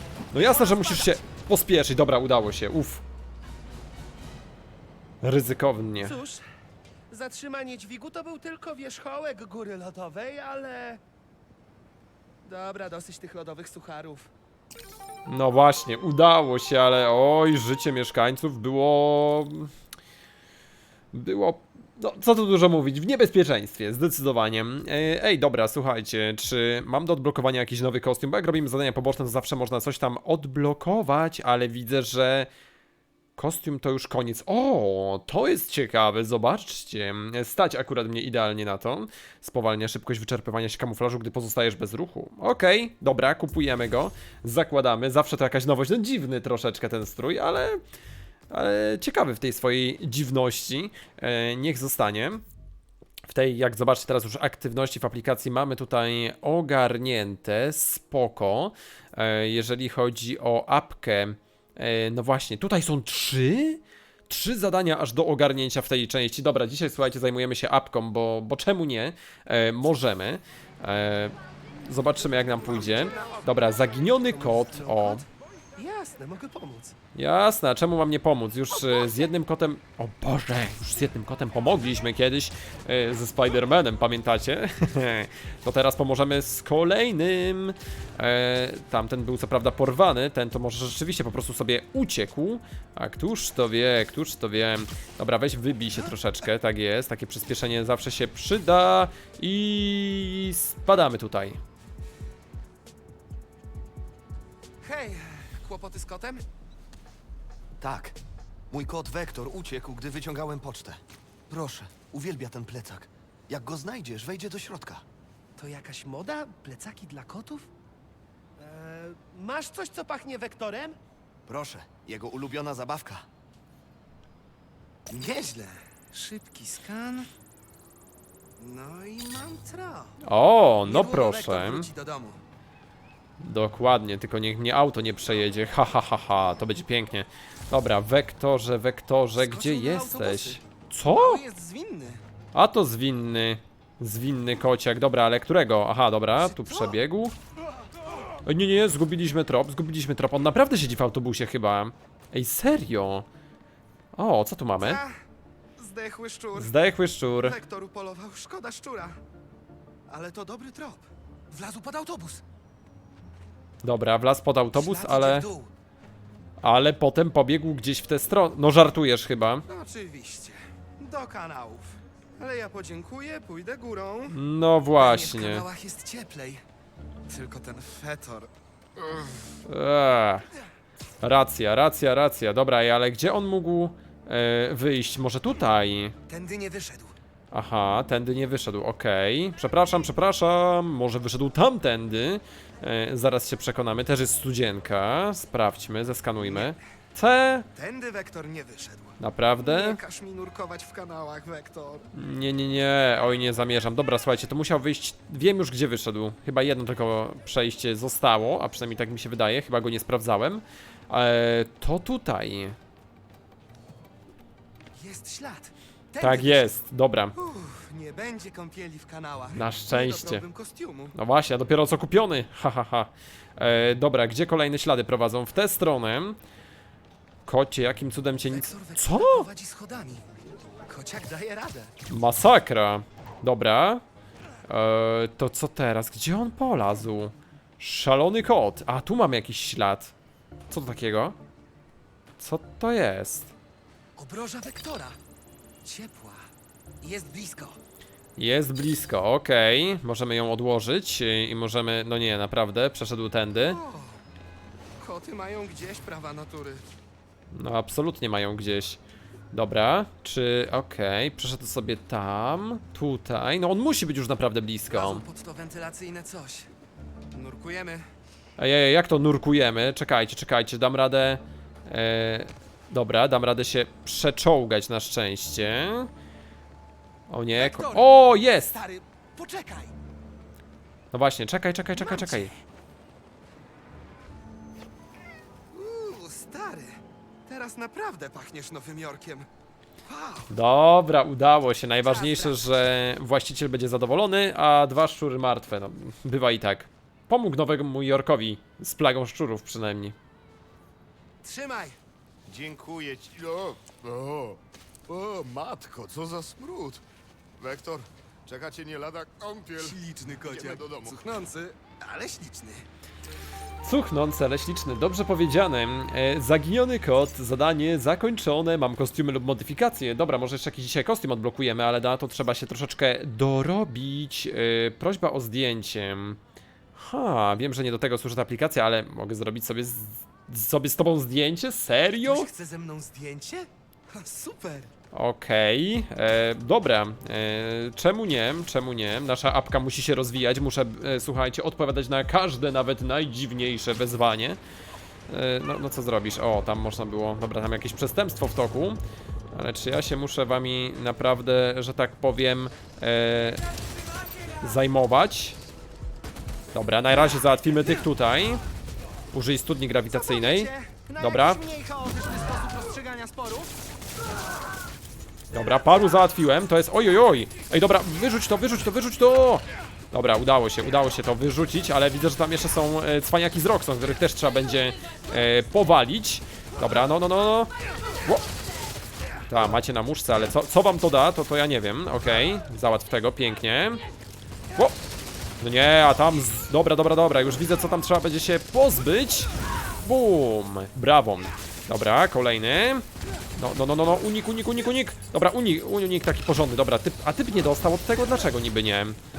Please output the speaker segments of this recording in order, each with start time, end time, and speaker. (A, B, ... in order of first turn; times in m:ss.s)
0:00.3-0:03.0 A
0:00.4-0:01.1 B
0:05.2-0:06.2 A
0:06.0-0:06.4 B
0:07.1-0:11.0 B
0:12.4-0:14.3 B
0:15.3-0:19.7 A
0:21.1-0:32.5 A
0:33.4-0:47.8 A
0:48.5-0:52.4 A
0:53.3-1:15.2 A
1:12.3-1:16.9 B
1:17.1-1:41.6 A
1:44.8-1:46.4 B
1:47.8-1:48.2 C
1:48.7-1:55.0 C
1:55.6-1:57.7 B
1:58.6-2:01.0 B
2:01.5-2:03.2 C
2:05.1-2:07.3 B
2:08.6-2:10.2 B
2:10.2-2:11.9 A
2:10.8-2:12.4 B
2:13.4-2:21.4 A
2:19.4-2:22.2 B
2:22.5-2:27.3 A
2:26.4-2:27.0 B
2:28.4-2:33.2 A
2:34.2-2:35.0 A
2:34.8-2:35.1 B
2:35.8-2:36.7 B
2:36.5-2:37.6 A
2:37.4-2:39.2 B
2:40.1-2:42.4 B
2:43.8-2:45.4 A
2:44.7-2:45.7 B
2:46.6-2:49.6 A
2:49.7-2:54.4 B
2:54.3-2:55.6 A
2:55.0-2:56.6 B
2:57.3-2:58.5 B
2:59.6-3:00.4 A
3:01.2-3:06.1 A
3:06.3-3:07.2 B
3:07.5-3:17.7 A
3:16.4-3:16.8 B
3:17.7-3:22.1 B
3:19.2-3:20.0 A
3:22.1-3:32.8 A
3:35.0-3:36.7 B
3:36.2-3:37.3 A
3:37.3-3:41.1 B
3:39.5-3:40.4 A
3:41.1-3:46.4 A
3:47.4-3:49.5 A
3:48.4-3:50.2 B
3:50.9-3:51.9 B
3:52.1-3:54.0 A
3:54.7-4:00.1 A
4:00.7-4:01.4 A
4:02.4-4:03.5 A
4:04.2-4:05.2 B
4:05.8-4:06.5 B
4:07.0-4:07.8 B
4:08.4-4:13.8 A
4:13.6-4:14.2 B
4:15.0-4:16.8 B
4:17.5-4:19.0 A
4:19.5-4:25.2 A
4:24.9-4:26.7 B
4:27.3-4:28.1 B
4:28.6-4:36.1 A
4:37.3-4:38.7 A
4:37.5-4:39.9 B
4:41.1-4:42.5 A
4:41.9-4:42.6 B
4:45.7-4:49.5 B
4:50.0-4:50.5 B
4:50.5-5:00.2 A
4:52.0-4:52.6 B
5:01.4-5:02.0 B
5:02.5-5:07.0 D
5:07.6-5:11.3 D
5:09.8-5:12.8 B
5:13.8-5:26.4 A
5:26.9-5:32.5 A
5:32.2-5:34.9 B
5:35.1-5:44.6 A
5:45.3-5:49.0 A
5:49.5-5:53.6 A
5:54.6-5:55.6 A
5:56.7-5:58.6 A
5:59.3-6:01.6 A
6:00.1-6:03.8 B
6:05.5-6:17.7 A
6:19.5-6:24.0 A
6:25.6-6:29.5 A
6:30.0-6:39.2 A